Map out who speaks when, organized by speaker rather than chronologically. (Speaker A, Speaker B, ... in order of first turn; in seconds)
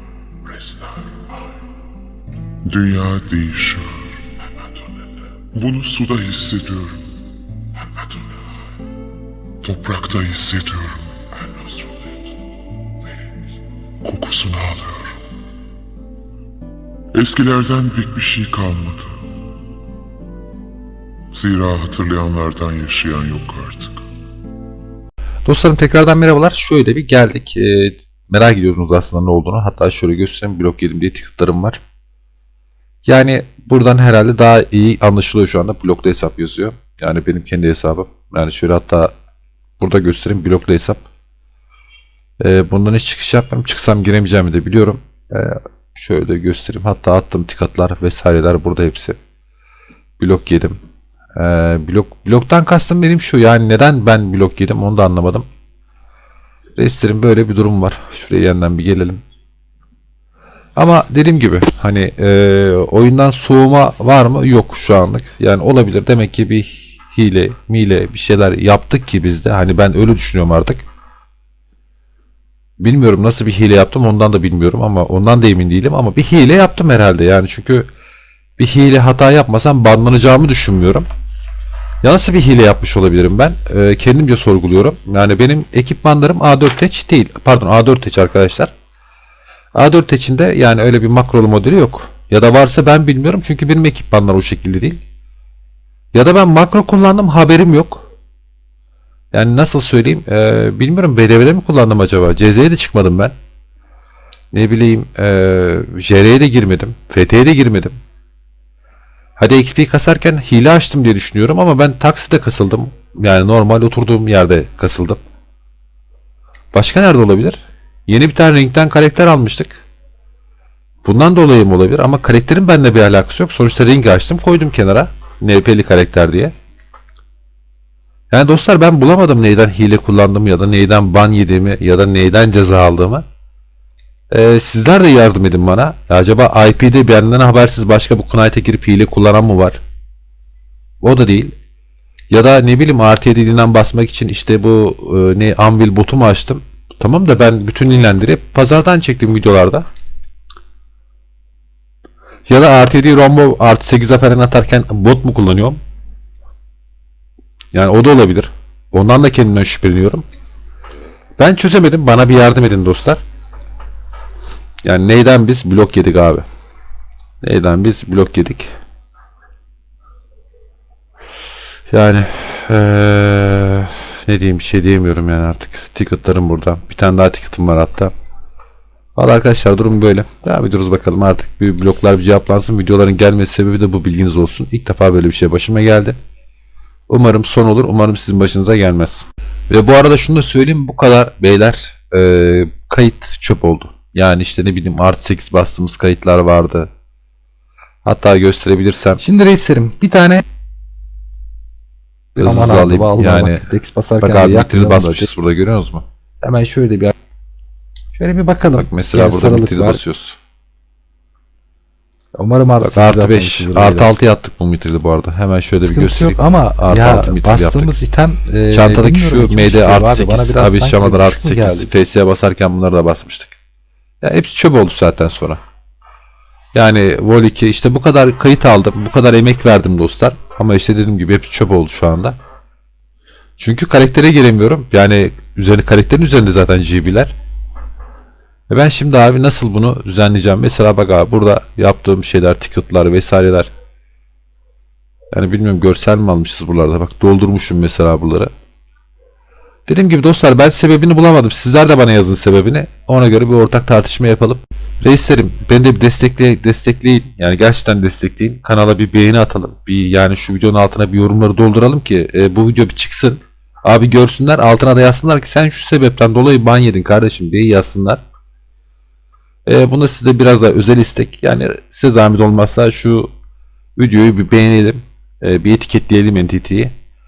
Speaker A: 0.5-1.2, 2.6-4.1, 5.5-7.0, 9.6-12.3, 14.0-15.2, 17.1-19.2, 21.3-24.0
Speaker B: 25.5-31.8, 33.1-39.1, 39.8-41.0, 42.4-49.2, 50.2-50.8, 51.4-55.5, 56.8-59.2, 60.8-70.9, 72.8-77.9, 78.6-81.1, 82.0-88.7, 89.8-95.0, 96.1-98.1, 99.3-103.3, 104.5-108.0, 109.4-115.2, 116.7-119.8, 121.0-126.5, 128.3-133.2, 134.3-139.8, 141.0-141.5, 142.3-149.9, 152.5-155.8, 157.7-160.2, 161.4-163.2, 164.8-166.5, 167.4-168.7, 171.9-178.1, 179.2-186.2, 187.1-196.9, 198.0-199.2, 202.4-203.7, 204.2-206.1, 208.7-210.4, 212.8-217.9, 218.7-223.6, 224.2-225.6, 226.7-232.4, 233.6-237.3, 238.7-243.7, 245.3-248.5, 249.9-268.2, 269.7-273.3, 274.0-276.9
Speaker C: 199.2-200.4, 202.4-205.3, 206.4-207.1, 208.2-210.0, 212.3-214.1, 215.9-221.9